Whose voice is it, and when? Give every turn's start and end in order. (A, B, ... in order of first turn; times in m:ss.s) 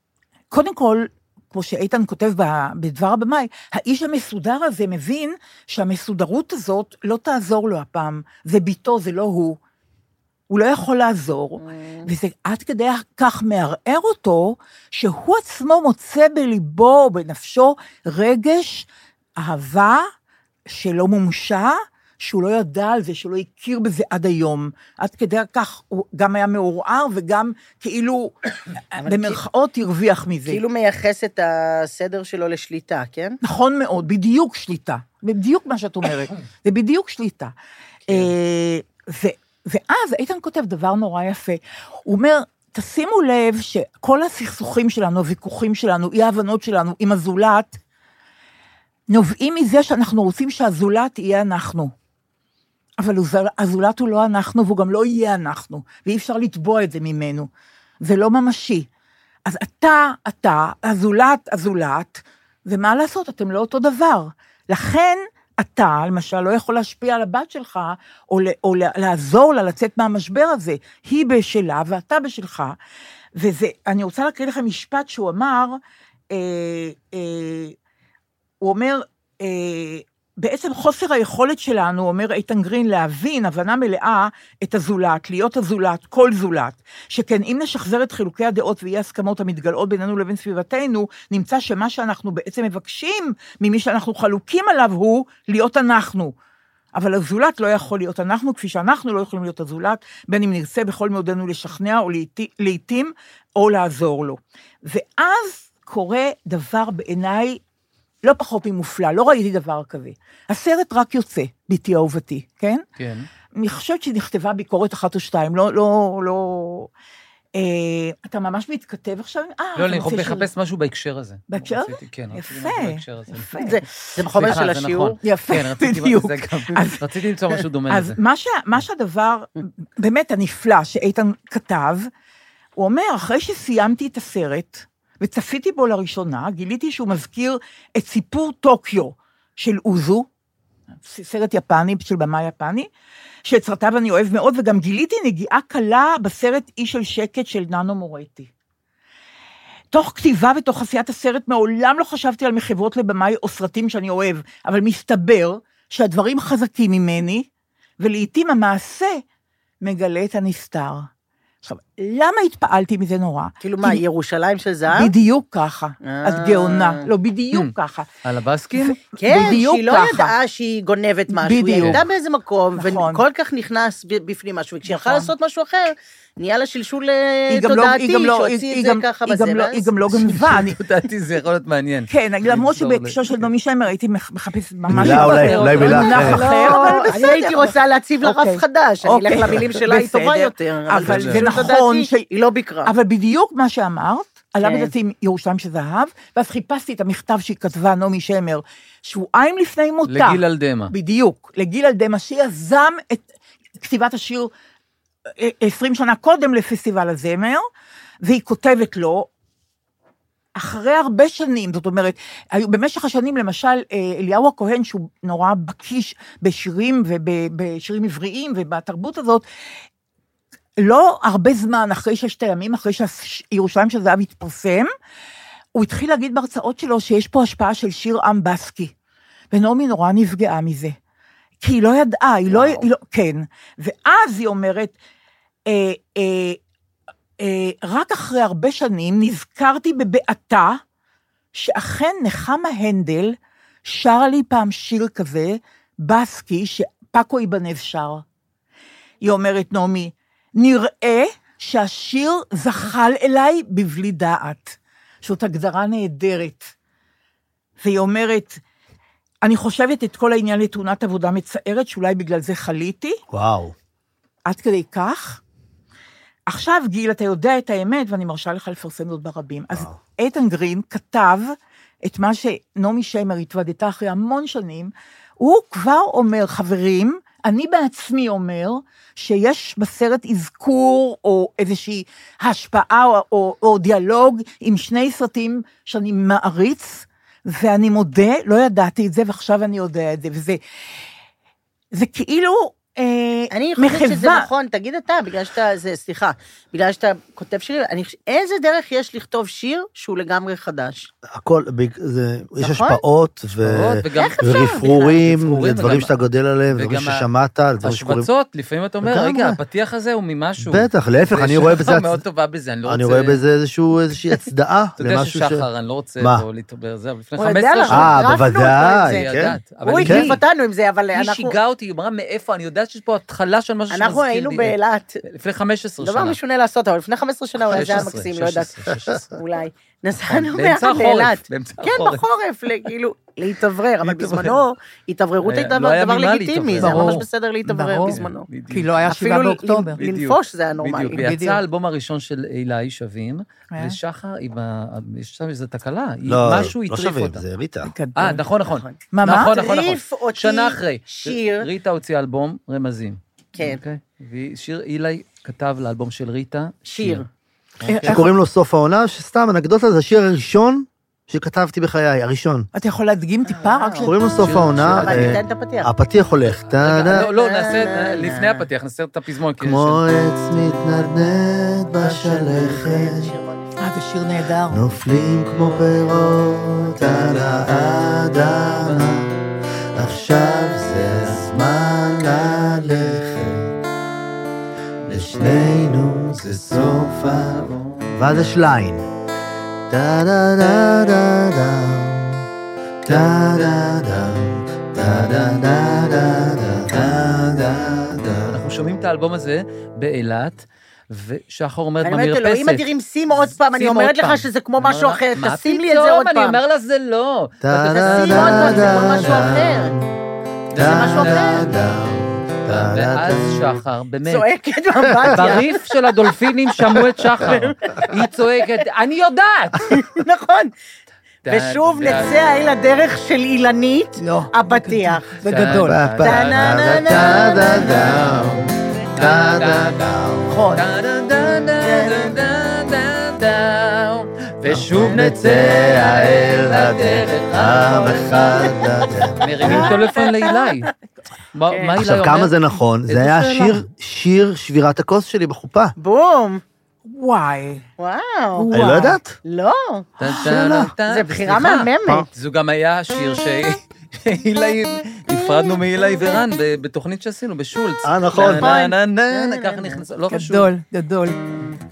0:00.5-0:09.6 A
0:10.5-0:20.1 A
0:11.6-0:12.1 B
0:20.7-0:28.3 A
0:28.9-0:30.6 A
0:29.0-0:29.4 B
0:30.5-0:33.4 B
0:33.4-0:37.5 A
0:38.1-0:47.8 A
0:49.1-0:51.9 A
0:53.0-0:57.5 A
0:58.0-0:58.9 A
0:59.4-1:12.8 A
1:13.4-1:15.8 A
1:16.3-1:17.8 A
1:18.6-1:36.3 A
1:36.9-1:47.6 A
1:48.2-1:52.8 A
1:53.0-1:53.3 C
1:53.6-1:56.9 A
1:57.6-2:00.5 A
1:59.8-2:03.5 C
2:01.5-2:03.8 A
2:03.6-2:05.2 B
2:04.2-2:08.2 C
2:05.2-2:07.0 A
2:07.9-2:12.1 A
2:12.8-2:20.3 A
2:21.0-2:22.9 A
2:23.5-2:28.5 A
2:29.9-2:37.5 A
2:38.0-2:39.2 A
2:39.8-2:41.1 A
2:41.6-2:44.0 A
2:43.6-2:45.1 B
2:44.9-2:48.1 A
2:46.0-2:47.1 B
2:48.2-2:49.0 C
2:48.8-2:50.3 A
2:49.2-2:59.9 B
2:51.3-2:52.0 A
2:52.8-2:53.2 A
2:54.9-2:55.3 A
2:57.5-3:00.8 A
3:00.3-3:03.5 C
3:02.1-3:12.3 A
3:04.9-3:06.5 D
3:04.9-3:07.2 C
3:05.8-3:12.9 B
3:11.0-3:11.5 C
3:12.8-3:23.2 A
3:14.6-3:14.9 B
3:20.1-3:20.9 C
3:23.8-3:24.5 A
3:25.4-3:27.6 A
3:28.2-3:29.3 A
3:30.6-3:39.4 A
3:40.8-3:44.9 A
3:45.8-3:48.9 A
3:49.5-3:51.0 A
3:51.6-3:55.0 A
3:52.5-3:52.8 B
3:55.7-3:56.6 A
3:57.4-4:00.8 A
4:01.5-4:08.2 A
4:09.2-4:16.7 A
4:17.8-4:18.6 A
4:19.4-4:23.2 A
4:23.3-4:23.7 D
4:24.5-4:25.4 A
4:26.5-4:50.6 A
4:51.9-4:54.5 A
4:53.5-5:01.1 B
5:01.3-5:08.3 D
5:02.6-5:03.0 B
5:03.6-5:06.1 C
5:04.2-5:05.2 B
5:06.7-5:07.3 C
5:07.8-5:13.4 C
5:09.0-5:09.6 D
5:10.6-5:12.2 D
5:12.9-5:15.7 D
5:15.0-5:20.4 C
5:16.2-5:16.4 D
5:17.4-5:19.3 B
5:17.9-5:20.4 D
5:19.9-5:21.6 B
5:21.1-5:26.4 C
5:23.9-5:25.2 B
5:26.0-5:28.7 B
5:27.6-5:29.3 C
5:27.7-5:28.0 A
5:29.4-5:38.5 B
5:30.3-5:32.2 C
5:34.0-5:34.6 C
5:35.4-5:37.2 C
5:36.8-5:38.2 A
5:38.1-5:39.1 C
5:38.7-5:40.0 A
5:39.1-5:41.3 B
5:40.0-5:47.4 C
5:41.1-5:41.6 A
5:46.3-5:47.9 D
5:47.8-5:48.4 A
5:48.2-5:57.2 C
5:48.8-5:51.7 B
5:49.1-5:49.6 A
5:56.9-5:57.3 B
5:57.8-5:58.2 C
5:57.9-5:58.3 A
5:58.0-6:02.7 D
6:02.7-6:04.2 A
6:03.5-6:04.1 B
6:04.0-6:07.2 D
6:04.4-6:05.4 C
6:04.8-6:05.9 B
6:06.5-6:10.0 C
6:06.8-6:08.7 B
6:09.6-6:13.3 D
6:12.0-6:13.7 B
6:13.8-6:14.9 A
6:14.7-6:19.3 D
6:20.0-6:23.7 D
6:25.1-6:29.1 D
6:29.9-6:32.4 D
6:33.1-6:38.6 D
6:38.4-6:49.6 C
6:42.0-6:46.6 B
6:47.6-6:50.1 D
6:48.0-6:50.0 B
6:50.7-6:53.8 D
6:50.8-6:51.6 B
6:50.8-6:51.6 C
6:52.7-6:54.5 C
6:54.3-6:58.8 B
6:55.2-6:55.5 D
6:55.3-7:00.0 C
6:59.8-7:00.7 B
7:01.4-7:02.4 C
7:01.5-7:05.5 B
7:04.2-7:06.0 A
7:05.4-7:07.2 C
7:05.6-7:10.6 D
7:06.2-7:08.4 B
7:09.2-7:10.2 C
7:10.5-7:10.8 A
7:10.8-7:18.8 C
7:11.8-7:12.4 B
7:14.7-7:19.9 D
7:19.4-7:20.9 C
7:19.6-7:20.3 A
7:19.6-7:20.2 B
7:21.6-7:23.8 C
7:21.7-7:22.0 B
7:22.0-7:25.9 D
7:26.0-7:26.6 B
7:27.1-7:27.8 A
7:28.0-7:28.7 B
7:28.6-7:29.2 A
7:28.7-7:29.4 D
7:29.5-7:30.1 B
7:30.2-7:40.7 C
7:30.4-7:30.9 D
7:31.1-7:32.3 B
7:38.0-7:38.8 D
7:38.6-7:40.0 B
7:40.3-7:41.4 A